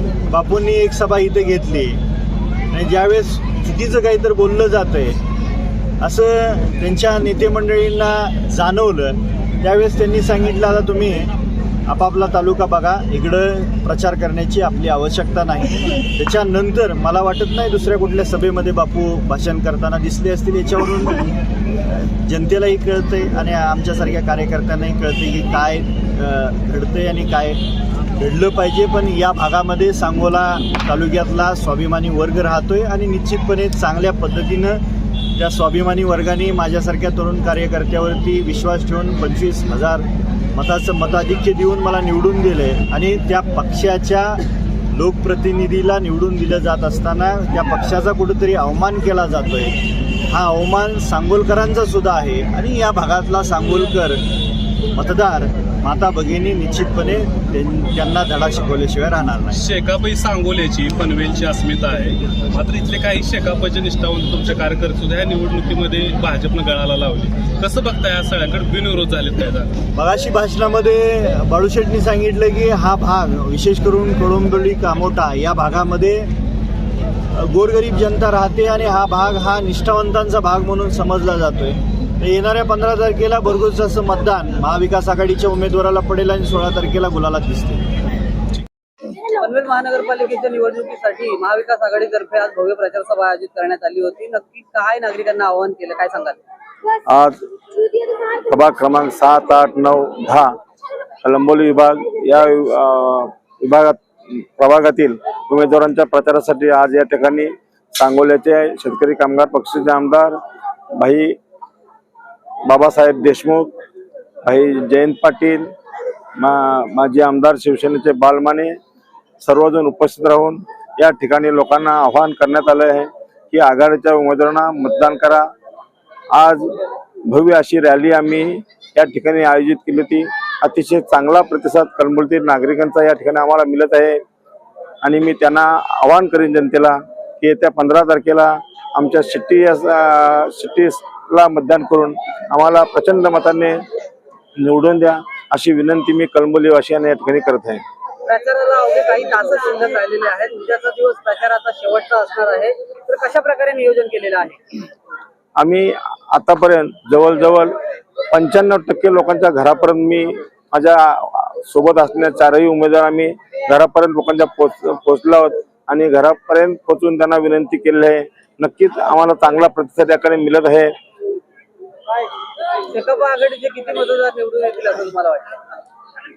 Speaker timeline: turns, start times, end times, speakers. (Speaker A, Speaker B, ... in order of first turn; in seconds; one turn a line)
Speaker A: 0.3-2.0
Speaker A: 2.7-5.2
Speaker A: 6.0-11.3
Speaker A: 11.9-21.4
Speaker A: 22.2-27.6
Speaker A: 28.2-34.8
Speaker A: 35.4-44.4
Speaker A: 44.9-49.8
Speaker A: 50.3-54.2
Speaker A: 54.9-59.6
Speaker B: 59.5-69.8
Speaker A: 69.9-76.3
Speaker A: 77.4-87.9
Speaker C: 89.3-96.4
Speaker D: 97.1-97.4
Speaker D: 98.0-100.5
Speaker D: 101.2-110.4
Speaker D: 110.9-111.4
Speaker D: 112.6-113.7
Speaker D: 114.4-115.7
Speaker D: 116.4-118.8
Speaker D: 119.4-125.5
Speaker D: 126.3-126.7
Speaker D: 127.3-134.2
Speaker D: 135.0-143.8
Speaker D: 144.6-147.8
Speaker C: 148.2-154.6
Speaker D: 155.6-157.8
Speaker D: 158.3-170.9
Speaker C: 172.9-175.5